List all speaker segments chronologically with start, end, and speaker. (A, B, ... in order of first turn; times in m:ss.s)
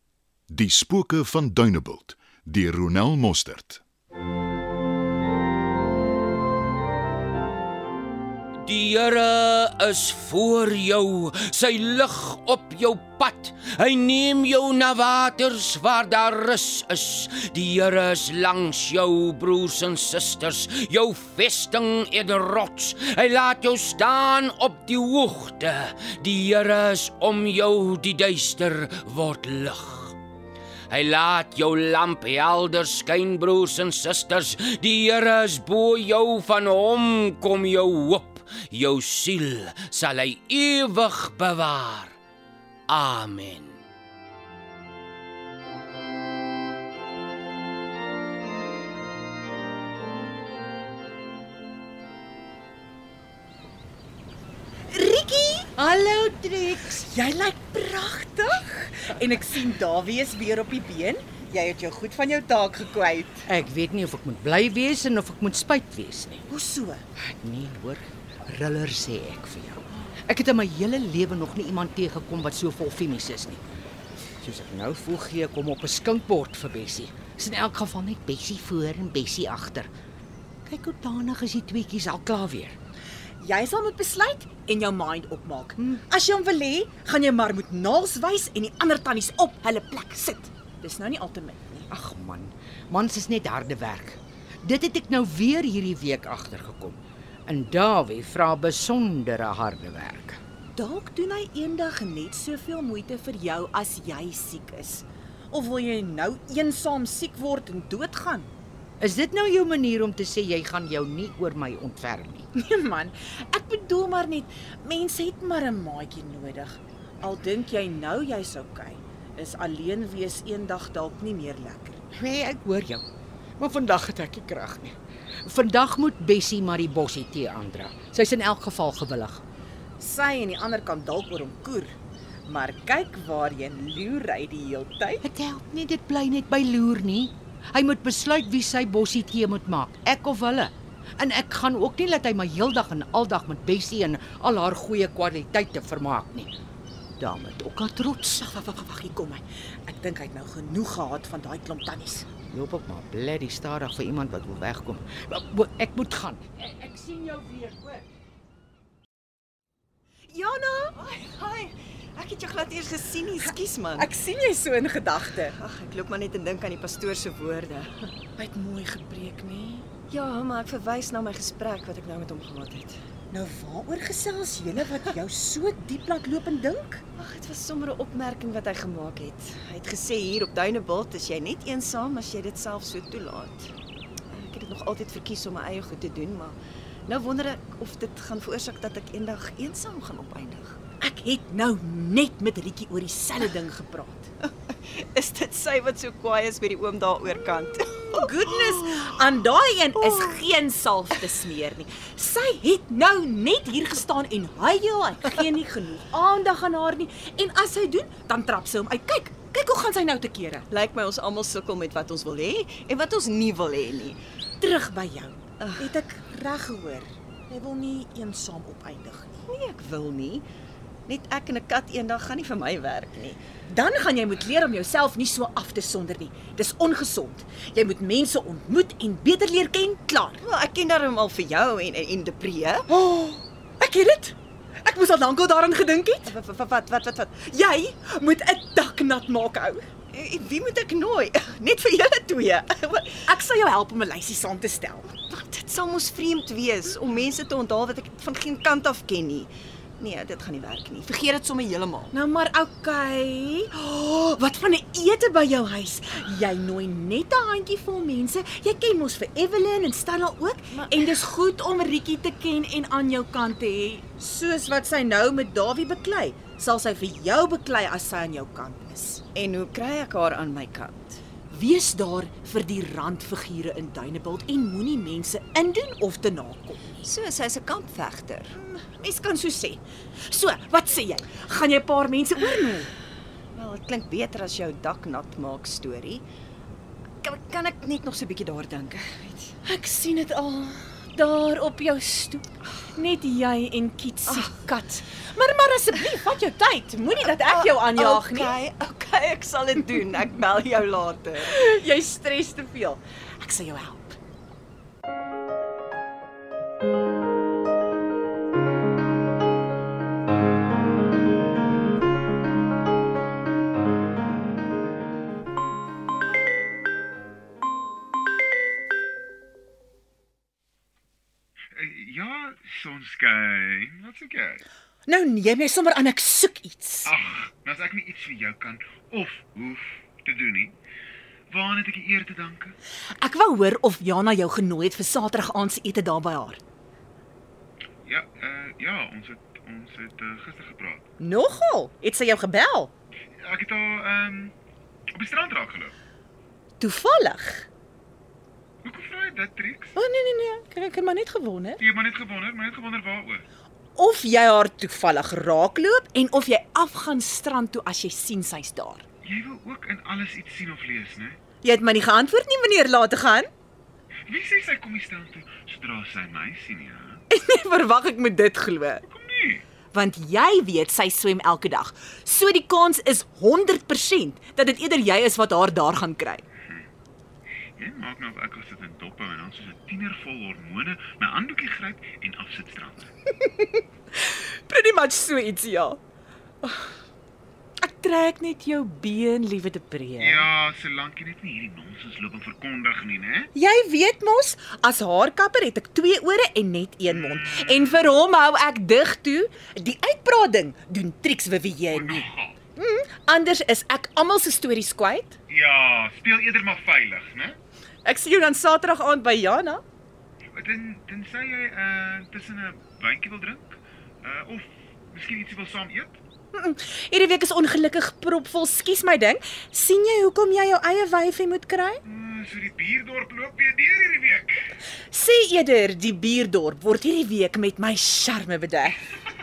0:00.5-0:03.8 A
0:08.6-0:30.2 B
0:30.9-0:42.2 B
0:42.9-0:43.8 B
0:54.9-0:55.7 C
0:55.8-0:57.1 D
0:57.0-1:03.4 C
1:03.5-1:06.5 D
1:06.5-1:07.0 C
1:07.2-1:13.6 D
1:14.4-1:19.9 D
1:20.7-1:22.8 D
1:23.4-1:31.9 C
1:31.9-1:40.4 D
1:40.8-1:48.5 C
1:49.0-1:52.5 D
1:52.6-2:02.0 C
2:02.1-2:03.0 D
2:03.6-2:09.4 D
2:10.0-2:11.9 C
2:12.5-2:15.2 C
2:15.2-2:26.5 D
2:27.2-2:28.5 D
2:28.4-2:32.3 C
2:32.5-2:38.1 D
2:40.3-2:41.0 C
2:41.0-2:44.1 E
2:44.0-2:45.5 C
2:45.5-2:48.0 E
2:48.4-2:49.9 C
2:50.1-2:53.0 E
2:53.3-2:57.0 C
2:57.2-3:03.7 E
3:04.3-3:10.8 E
3:11.0-3:14.3 C
3:14.7-3:19.0 E
3:18.1-3:30.7 C
3:20.1-3:20.4 E
3:30.7-3:34.2 E
3:34.6-3:39.4 C
3:35.6-3:35.9 E
3:39.5-3:40.4 E
3:41.1-3:43.4 E
3:43.7-3:50.4 C
3:50.4-3:52.9 E
3:52.9-3:56.3 C
3:56.3-3:57.4 E
3:57.4-3:59.8 C
4:00.1-4:03.1 E
4:03.3-4:05.1 C
4:05.2-4:12.1 E
4:12.1-4:29.2 C
4:20.8-4:21.2 E
4:29.4-4:31.2 E
4:31.5-4:37.0 C
4:37.0-4:38.5 E
4:38.5-4:42.9 C
4:43.6-4:46.2 E
4:47.2-4:49.5 E
4:49.6-4:58.6 C
4:57.3-5:01.6 E
5:01.4-5:04.2 C
5:21.8-5:24.6 F
5:25.1-5:27.1 C
5:27.1-5:30.8 F
5:31.5-5:32.8 F
5:33.2-5:36.6 C
5:38.1-5:41.0 F
5:41.2-5:42.9 C
5:43.4-5:44.5 F
5:45.1-5:45.9 F
5:46.8-5:47.7 C
5:48.8-5:49.9 F
5:50.0-5:51.8 C
5:51.8-5:53.4 F
5:54.0-5:59.0 C
5:59.2-6:01.4 F
6:01.6-6:03.5 C
6:04.3-6:07.2 F
6:07.3-6:09.0 C
6:09.1-6:09.6 F
6:09.9-6:16.4 C
6:17.8-6:23.1 F
6:24.3-6:26.0 C
6:26.6-6:26.9 C
6:27.8-6:30.5 C
6:30.2-6:33.5 F
6:33.6-6:45.4 C
6:37.1-6:37.9 F
6:41.9-6:42.6 F
6:45.5-6:47.6 F
6:48.0-6:49.8 C
6:50.6-6:56.2 F
6:56.5-7:02.0 C
7:02.0-7:04.8 F
7:05.1-7:09.0 C